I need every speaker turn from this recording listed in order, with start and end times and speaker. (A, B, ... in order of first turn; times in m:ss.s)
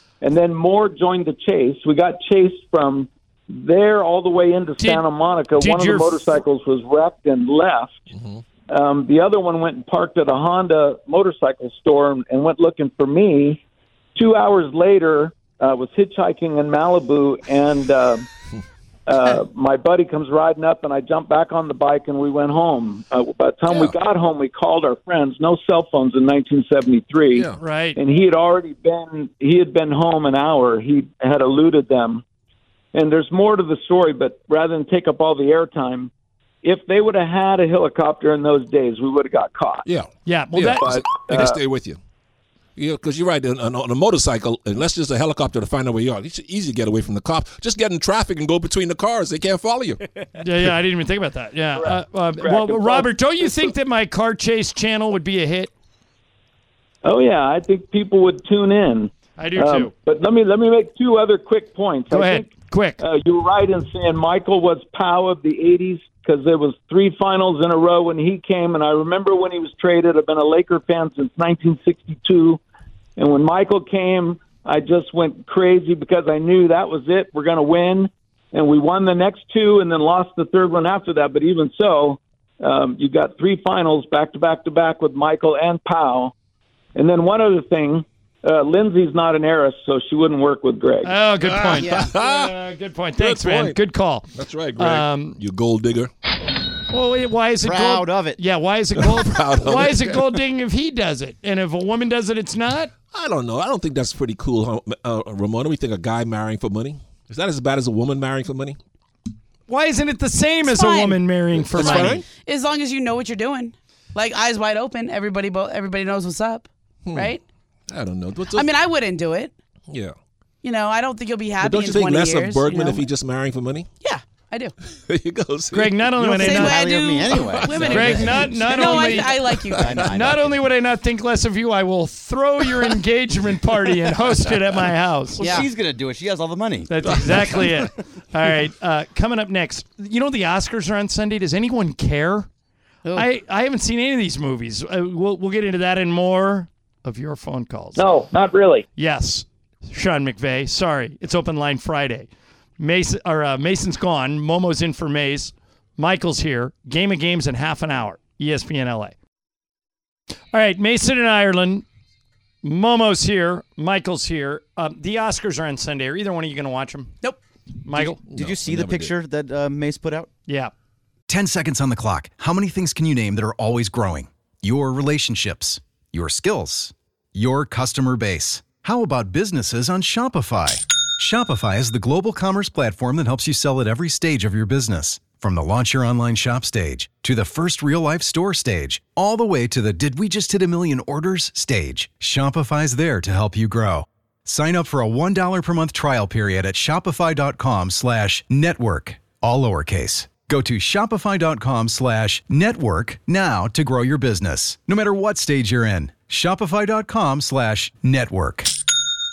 0:00.2-0:08.0 A
0:04.8-0:05.0 B
0:05.5-0:06.2 B
0:08.1-0:08.4 C
0:08.7-0:13.6 A
0:14.1-0:18.2 A
0:19.1-0:32.2 A
0:23.7-0:24.0 C
0:27.3-0:27.6 C
0:27.6-0:28.0 B
0:32.9-0:36.1 A
0:36.6-0:39.8 A
0:39.8-0:42.0 C
0:40.2-0:41.4 B
0:40.8-0:41.6 A
0:42.8-0:50.0 C
0:50.4-0:55.7 B
0:51.8-0:53.7 A
0:57.0-1:12.6 A
0:59.4-0:59.9 B
1:02.1-1:03.0 B
1:13.2-1:26.3 A
1:26.9-1:31.1 A
1:31.0-1:35.4 B
1:31.4-1:32.5 C
1:31.8-1:32.1 D
1:33.2-1:33.8 C
1:34.3-1:36.1 C
1:36.9-1:42.9 B
1:37.6-1:38.4 E
1:39.0-1:40.4 C
1:43.1-1:48.8 C
1:49.7-1:52.2 B
1:50.6-1:51.2 D
1:51.7-1:52.2 C
1:51.7-1:57.4 D
1:57.0-1:57.4 C
1:57.9-1:58.7 C
1:58.5-1:59.5 D
1:59.9-2:00.1 C
2:00.6-2:03.0 D
2:01.6-2:03.9 C
2:04.0-2:04.7 D
2:05.1-2:06.7 C
2:05.7-2:06.8 B
2:06.2-2:08.8 E
2:06.3-2:10.1 D
2:07.3-2:08.0 C
2:07.8-2:15.6 B
2:08.8-2:10.0 C
2:09.8-2:10.6 E
2:15.4-2:15.7 D
2:15.4-2:17.5 E
2:16.9-2:22.5 B
2:17.0-2:17.7 C
2:23.1-2:28.0 B
2:28.0-2:28.8 A
2:29.0-2:39.1 B
2:40.5-2:41.8 B
2:42.6-2:47.2 B
2:47.8-2:48.2 B
2:48.0-2:50.3 E
2:48.3-2:49.1 C
2:50.5-2:50.7 B
2:51.3-3:28.7 F